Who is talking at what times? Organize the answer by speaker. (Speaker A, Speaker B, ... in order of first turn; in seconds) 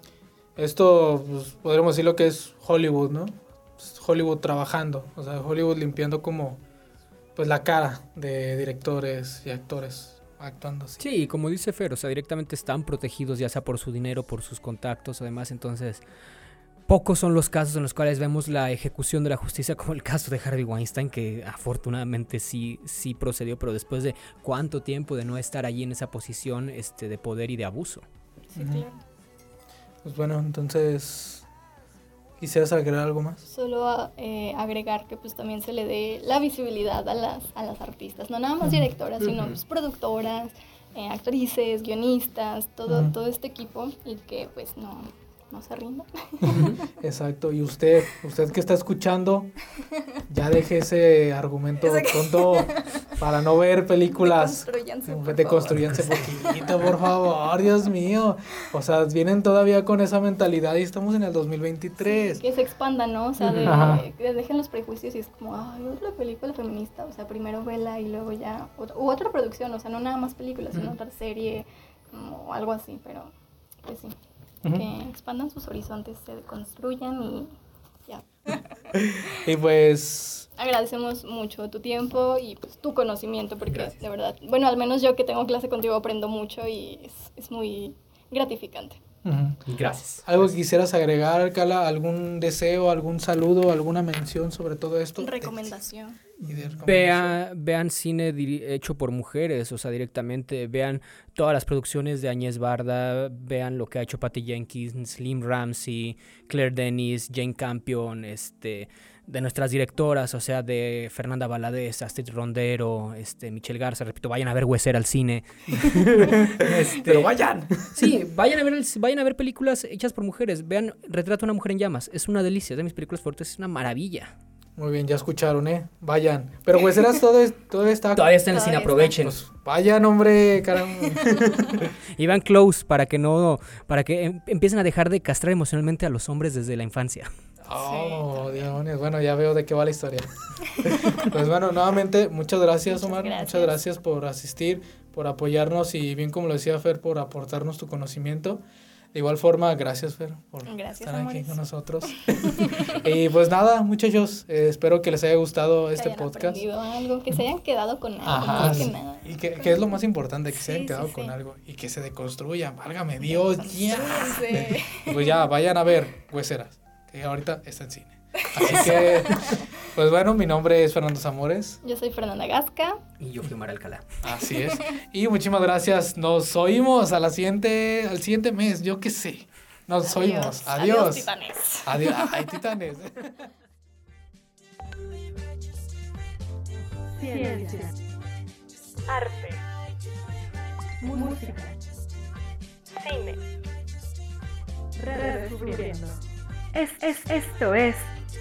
Speaker A: 0.6-6.6, 7.3-11.0, 28.6-28.9, 30.0-31.4, 32.4-33.4, 42.9-43.1, 46.4-49.5, 50.3-62.4, 63.6-64.0, 78.9-80.5, 89.2-89.6, 90.2-95.7, 96.4-97.3, 115.7-118.1, 124.8-128.3, 129.2-131.7, 137.6-148.6, 149.1-156.6, 158.2-171.8, 174.2-181.3, 181.8-183.5
Speaker B: 11.0-16.0, 16.9-28.0, 39.2-39.5, 46.5-46.8, 55.8-56.2, 63.4-63.9, 83.7-83.9, 89.7-90.4, 96.8-117.3, 117.8-124.3, 128.1-129.4, 132.2-137.3, 158.6-158.8, 168.6-169.4, 173.2-174.1
Speaker C: 28.5-29.0, 33.5-46.7, 51.8-53.1, 54.2-57.1, 62.0-74.2, 74.7-77.5, 78.1-78.8, 80.6-89.0, 95.2-96.2, 128.5-129.2, 131.3-131.6, 137.7-138.7, 140.7-141.3, 142.8-143.8, 150.7-153.0, 155.9-159.9, 160.5-161.3, 163.2-165.3, 168.4-169.7, 171.8-173.0, 174.5-174.9, 180.0-182.5
Speaker D: 187.1-187.9, 189.1-189.6, 191.0-191.8, 192.8-193.4, 195.0-196.2, 196.7-198.1